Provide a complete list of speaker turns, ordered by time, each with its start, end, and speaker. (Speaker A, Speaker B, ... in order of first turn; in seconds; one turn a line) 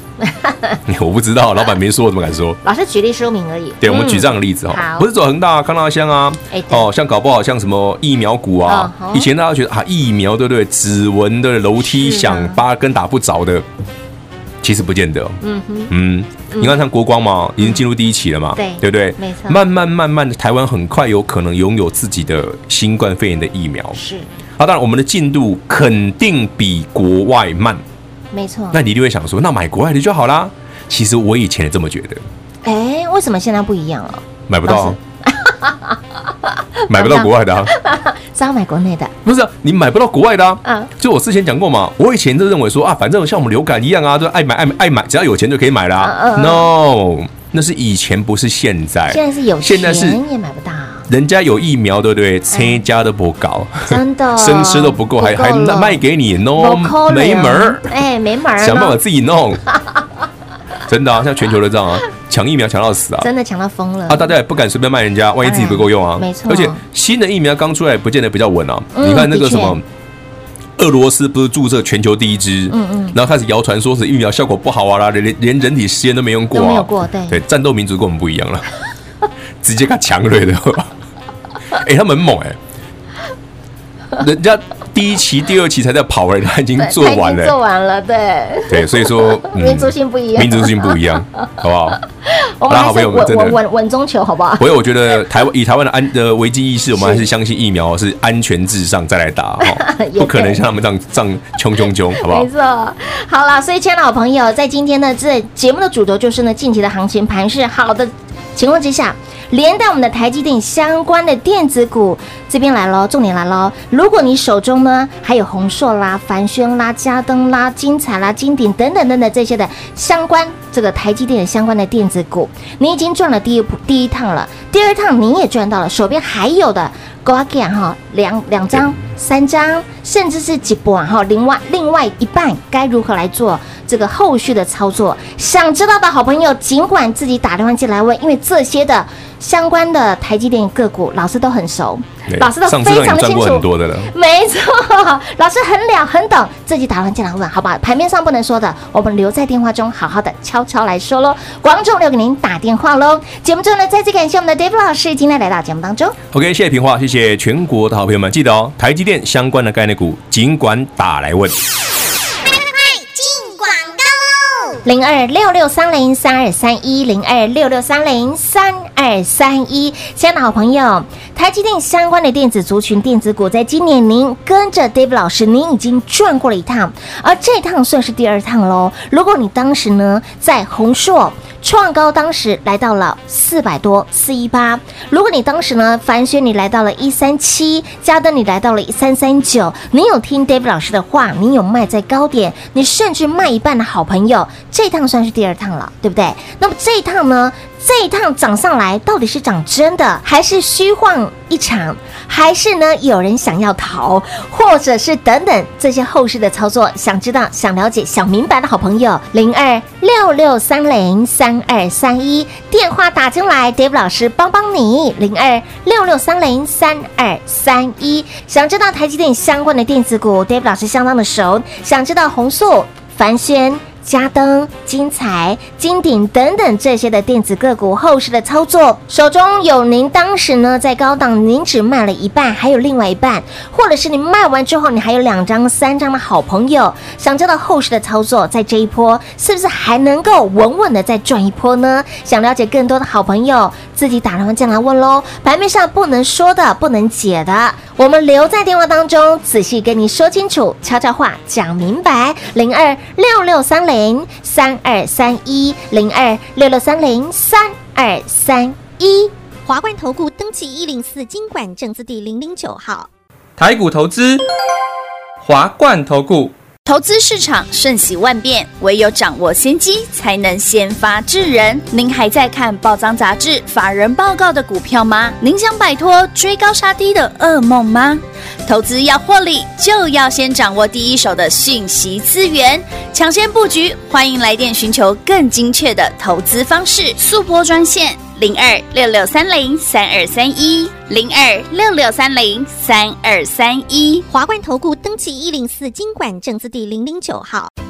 Speaker A: 0.2-0.8
Speaker B: 0.9-2.6
Speaker A: 2.6-5.1
Speaker B: 3.8-13.7
Speaker A: 6.5-6.9
Speaker A: 8.7-9.3
Speaker A: 11.8-12.6
Speaker B: 14.6-24.0
Speaker A: 15.4-15.9
Speaker A: 16.5-16.8
Speaker A: 18.6-19.6
Speaker A: 23.9-24.3
Speaker B: 24.6-27.8
Speaker A: 28.3-28.8
Speaker B: 28.7-32.2
Speaker A: 32.6-36.0
Speaker B: 34.5-35.0
Speaker A: 36.8-39.1
Speaker B: 36.9-37.7
Speaker B: 39.2-50.2
Speaker A: 40.6-40.9
Speaker A: 46.0-46.7
Speaker A: 49.1-51.1
Speaker B: 51.1-57.9
Speaker A: 52.5-52.9
Speaker A: 53.9-56.0
Speaker A: 56.6-59.0
Speaker B: 58.6-59.6
Speaker B: 60.9-63.3
Speaker A: 63.2-64.3
Speaker B: 64.1-69.8
Speaker A: 65.4-66.8
Speaker A: 69.0-69.8
Speaker B: 70.8-78.7
Speaker A: 72.7-73.2
Speaker A: 76.5-77.4
Speaker B: 79.6-80.9
Speaker B: 81.7-82.6
Speaker B: 84.2-87.6
Speaker A: 86.8-91.2
Speaker B: 88.7-92.0
Speaker A: 92.2-94.8
Speaker B: 92.7-93.6
Speaker B: 94.6-102.5
Speaker A: 97.0-97.3
Speaker A: 99.6-100.6
Speaker A: 102.1-156.2
Speaker B: 142.3-144.1
Speaker B: 156.3-161.6
Speaker C: 162.4-164.8
Speaker A: 164.8-259.3
Speaker C: 259.7-263.1
Speaker D: 263.6-264.4
Speaker D: 265.4-266.5
Speaker E: 266.9-294.3
Speaker C: 294.3-297.7